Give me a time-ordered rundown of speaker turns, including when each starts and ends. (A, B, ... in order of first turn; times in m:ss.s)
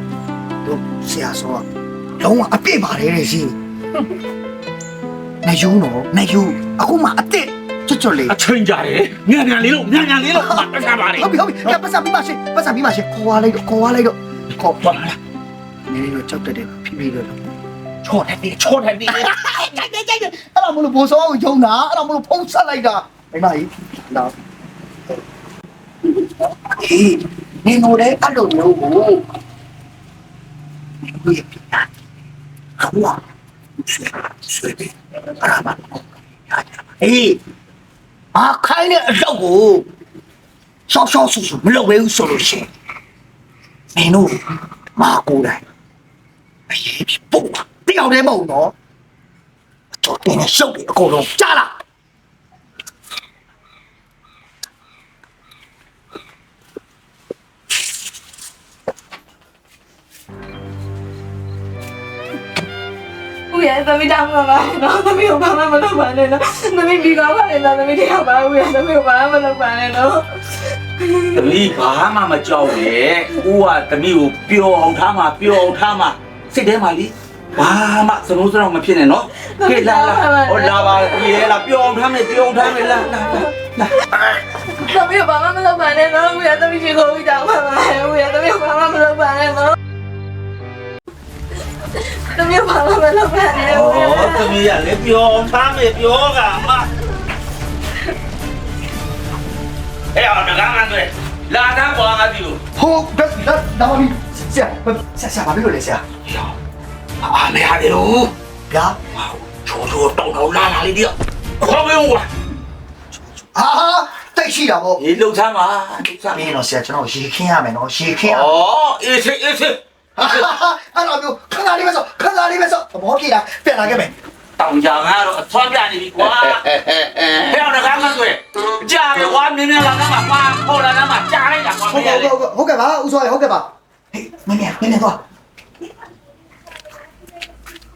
0:00.6-0:01.6 A
0:02.2-0:03.6 A
0:05.4-0:08.4 A
0:08.3-0:11.8 B
0:10.3-0:15.0 A
0:14.7-0:15.2 B
0:15.9-0:17.4 A
0:18.0-0:19.4 B
0:18.1-0:18.5 A
0:19.1-0:24.4 A
0:26.8-0:29.2 A
0:31.1-0:31.9 A
0:32.8-0:33.2 A
0:33.8-0:37.4 A
0:38.3-0:39.9 A
0:40.9-0:42.7 A
0:44.0-0:45.6 A
0:46.7-0:48.7 A
0:50.0-0:51.7 A
1:03.5-1:11.4 C
1:11.3-1:24.4 B
1:19.4-1:21.5 C
1:24.8-1:29.8 C
1:32.1-1:34.5 C
1:33.6-1:36.9 B
1:40.1-1:42.6 B
1:42.8-1:46.0 A
1:46.3-1:46.5 B
1:47.2-1:48.3 B
1:48.7-1:49.0 A
1:49.1-1:52.3 B
1:53.1-1:55.0 A
1:55.0-1:56.6 B
1:56.3-1:58.6 A
1:58.2-1:59.8 B
2:00.2-2:04.1 A
2:04.6-2:12.3 B
2:11.9-2:15.2 A